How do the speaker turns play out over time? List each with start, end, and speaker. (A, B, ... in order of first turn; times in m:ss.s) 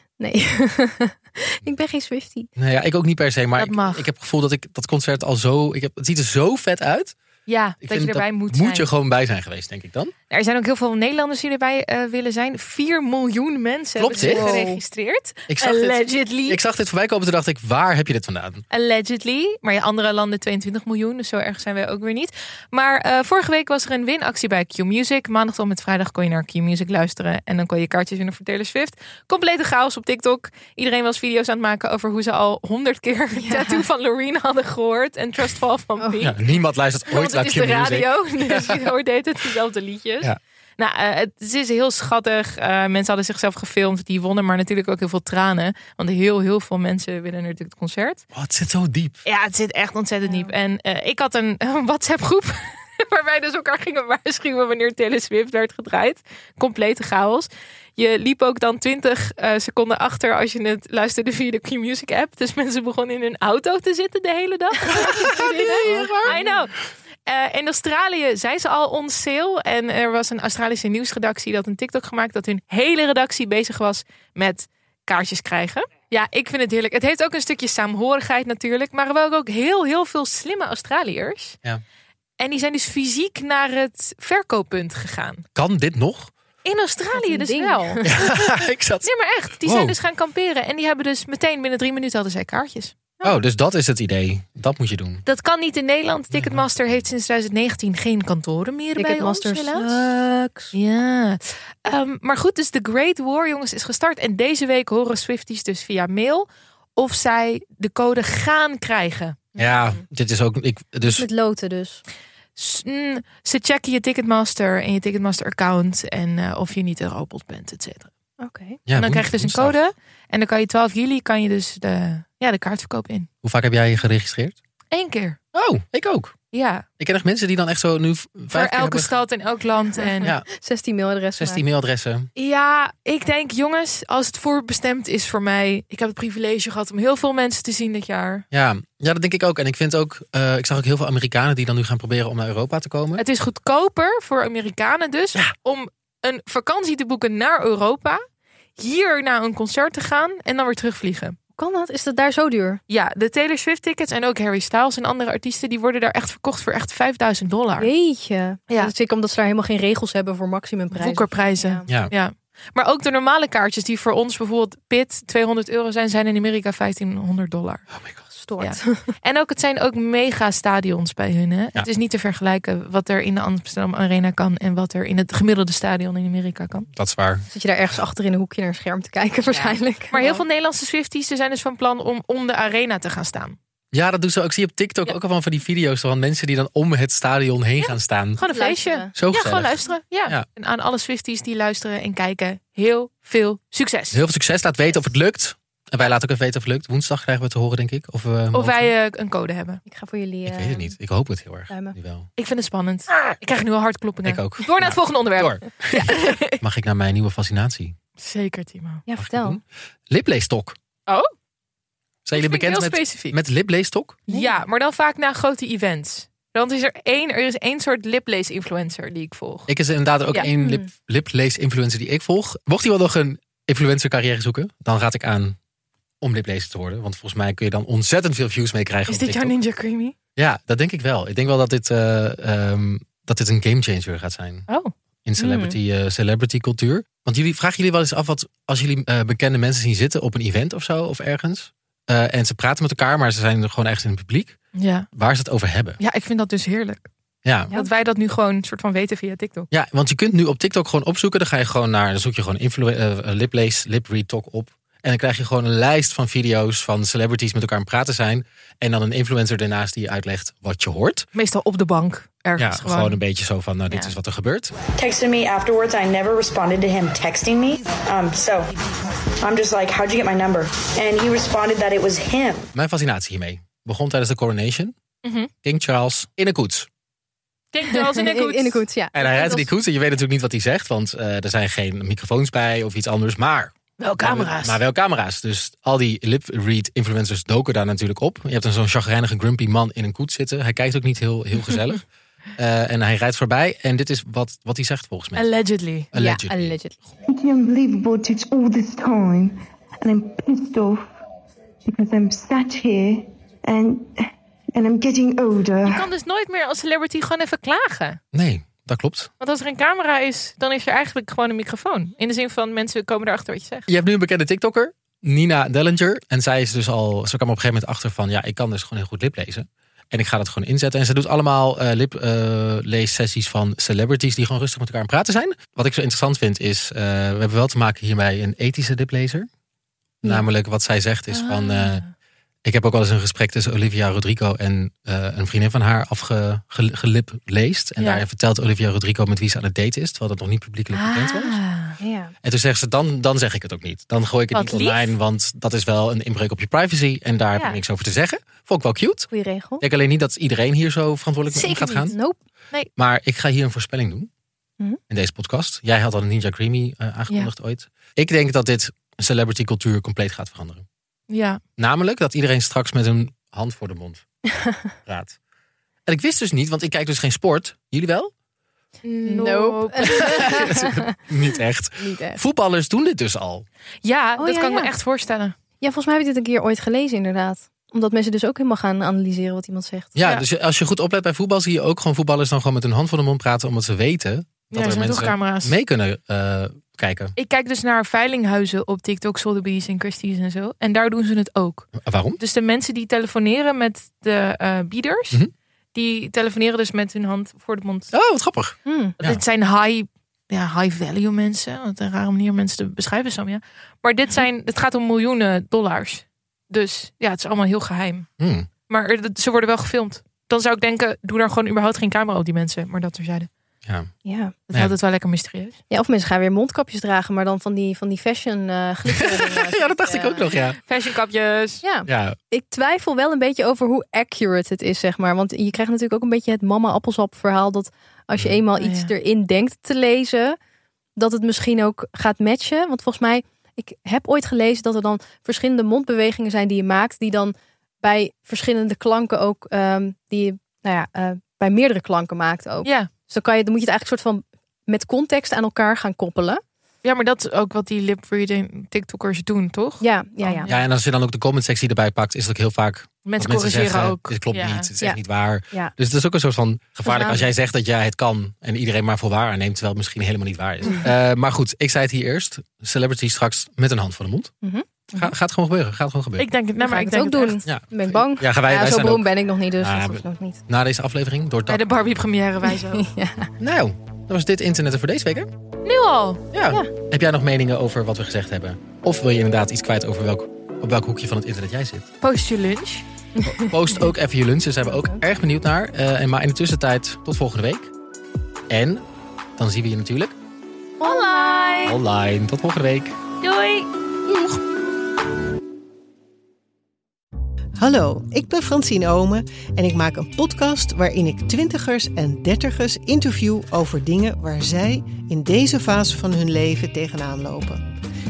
0:00.2-0:02.5 A
0:02.6-0:07.2 B
0:03.6-0:04.0 C
0:07.5-0:08.9 C
0:07.8-0:10.1 B
0:10.3-0:16.6 C
0:14.0-0:14.7 B
0:14.0-0:14.8 A
0:15.5-0:18.6 B
0:18.7-0:36.5 C
0:33.4-0:33.8 A
0:36.2-0:38.8 B
0:37.1-0:48.2 C
0:48.3-0:49.2 B
0:49.2-1:06.7 C
0:50.2-0:50.5 A
1:04.9-1:06.5 A
1:05.1-1:06.4 B
1:07.2-1:21.6 C
1:22.4-1:25.4 C
1:25.5-1:26.3 B
1:26.6-1:28.0 C
1:27.1-1:28.1 A
1:28.0-1:29.1 B
1:29.0-1:32.9 C
1:29.6-1:29.9 B
1:33.2-1:35.2 B
1:35.2-1:39.9 C
1:36.3-1:36.9 B
1:39.0-1:40.7 A
1:40.7-1:49.5 C
1:49.6-1:51.3 B
1:49.6-1:49.9 A
1:51.1-1:52.0 A
1:52.6-1:58.1 C
1:58.4-1:58.8 A
1:58.8-1:59.8 B
1:58.9-2:03.3 C
2:03.4-2:04.6 B
2:04.9-2:05.4 C
2:05.5-2:06.3 B
2:06.5-2:06.8 C
2:07.0-2:09.1 B
2:08.5-2:10.3 C
2:10.0-2:11.6 A
2:11.4-2:12.3 B
2:12.4-2:18.4 C
2:18.5-2:23.2 B
2:23.2-2:28.2 C
2:28.8-2:31.4 C
2:31.6-2:32.8 A
2:32.9-2:37.9 C
2:37.8-2:41.8 A
2:40.9-2:47.8 C
2:41.9-2:42.1 B
2:47.9-2:48.2 B
2:48.3-2:49.0 A
2:48.6-2:56.9 C
2:57.0-2:57.4 B
2:57.5-3:00.4 A
2:59.5-3:03.6 C
3:03.9-3:08.4 B
3:07.8-3:14.2 C
3:08.4-3:09.1 A
3:09.1-3:10.4 B
3:14.1-3:18.9 B
3:18.5-3:19.8 C
3:19.9-3:20.9 A
3:20.4-3:22.3 B
3:21.7-3:21.9 A
3:22.4-3:26.6 C
3:24.2-3:27.9 B
3:28.2-3:29.0 C
3:29.0-3:29.6 A
3:29.2-3:30.8 B
3:32.2-3:34.2 B
3:32.3-3:33.4 C
3:34.3-3:39.7 C
3:39.7-3:45.6 B
3:40.3-3:40.8 A
3:46.2-3:49.6 B
3:49.1-3:50.1 C
3:50.4-3:54.7 B
3:54.7-3:54.9 C
3:55.2-4:04.6 B
3:55.4-3:55.8 A
4:04.8-4:05.1 C
4:05.1-4:06.0 B
4:06.0-4:07.1 C
4:07.4-4:07.7 B
4:07.7-4:09.7 C
4:09.7-4:21.3 B
4:21.3-4:23.2 C
4:22.6-4:24.7 B
4:25.0-4:28.7 D
4:29.4-4:32.7 D
4:32.7-4:34.9 B
4:35.2-4:35.5 C
4:35.6-4:36.9 B
4:37.7-4:38.8 C
4:37.9-4:39.7 A
4:39.1-4:52.0 B
4:44.0-4:44.8 C
4:52.6-4:55.5 B
4:55.3-4:56.1 C
4:56.1-4:56.8 B
4:56.1-4:57.0 A
4:57.3-5:01.0 E
5:01.9-5:04.1 E
5:04.7-5:06.1 E
5:05.8-5:08.2 C
5:08.3-5:09.3 B
5:09.4-5:13.9 C
5:13.9-5:29.5 B
5:30.2-5:32.0 B
5:31.3-5:32.1 C
5:32.6-5:41.6 B
5:38.0-5:38.2 C
5:40.9-5:42.0 C
5:42.0-5:42.3 A
5:42.4-5:52.2 B
5:44.5-5:45.1 C
5:49.3-5:49.8 A
5:51.5-5:52.1 C
5:52.1-5:52.4 A
5:53.0-5:54.3 B
5:55.1-6:00.8 B
6:01.3-6:01.6 C
6:01.8-6:04.2 B
6:04.6-6:04.9 A
6:05.0-6:05.4 B
6:06.0-6:08.3 B
6:09.0-6:10.7 C
6:09.2-6:11.1 A
6:10.2-6:13.6 B
6:12.0-6:12.4 A
6:14.0-6:15.5 C
6:14.4-6:14.9 A
6:15.8-6:20.1 A
6:20.2-6:27.3 B
6:24.7-6:25.8 C
6:27.4-6:35.4 C
6:32.0-6:32.4 B
6:35.9-6:38.1 C
6:38.1-6:39.4 B
6:38.9-6:39.1 A
6:39.2-6:48.3 C
6:48.4-6:48.7 B
6:48.9-6:53.5 C
6:54.2-6:54.6 A
6:54.7-6:55.8 C
6:55.9-7:00.5 A
6:59.1-7:00.8 B
7:00.9-7:01.8 C
7:01.8-7:10.6 A
7:02.1-7:02.4 B
7:08.8-7:09.1 C
7:11.2-7:26.6 A
7:22.8-7:23.1 C
7:27.0-7:30.8 C
7:30.0-7:30.7 A
7:30.6-7:44.5 B
7:33.2-7:34.9 C
7:37.0-7:37.5 A
7:44.6-7:45.3 A
7:45.2-7:46.5 B
7:46.4-7:47.6 C
7:46.8-7:50.6 A
7:47.6-7:51.8 B
7:51.7-7:53.0 C
7:52.7-7:53.5 A
7:53.6-7:55.5 B
7:55.8-7:56.4 C
7:56.5-8:02.1 B
8:02.2-8:03.0 C
8:03.4-8:03.7 A
8:03.4-8:07.9 B
8:08.7-8:09.0 B
8:09.6-8:10.3 B
8:11.0-8:11.9 A
8:11.0-8:11.9 C
8:11.8-8:13.2 B
8:13.4-8:13.9 C
8:17.8-8:27.9 F